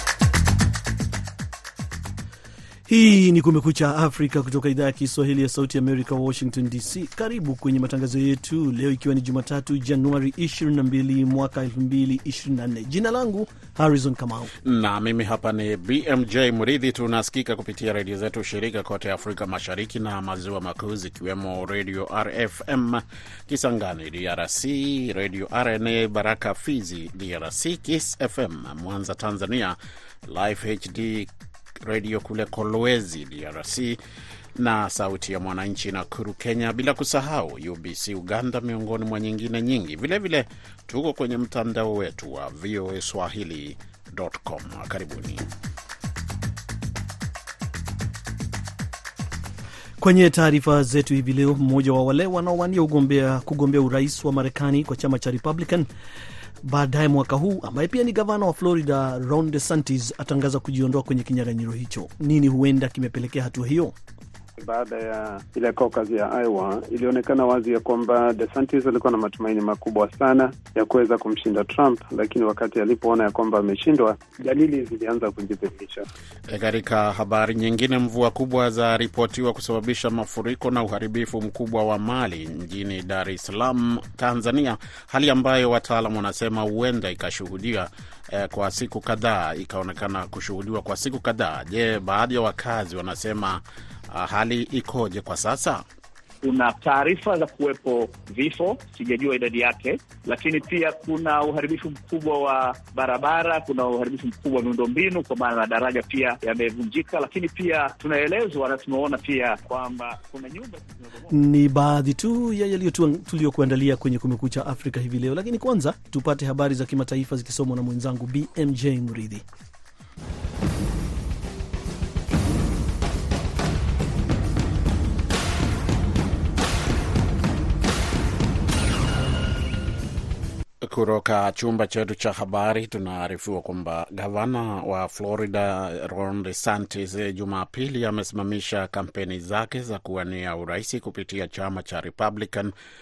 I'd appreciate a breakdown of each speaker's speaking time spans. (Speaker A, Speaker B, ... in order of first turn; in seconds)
Speaker A: 2.9-14.5, 50.0-55.9, 56.6-64.0, 111.3-119.5
Speaker B: 14.7-29.8, 30.3-31.3, 31.8-34.0, 34.6-45.5, 76.5-95.8, 130.8-142.7
Speaker C: 64.6-76.1
Speaker D: 96.4-111.3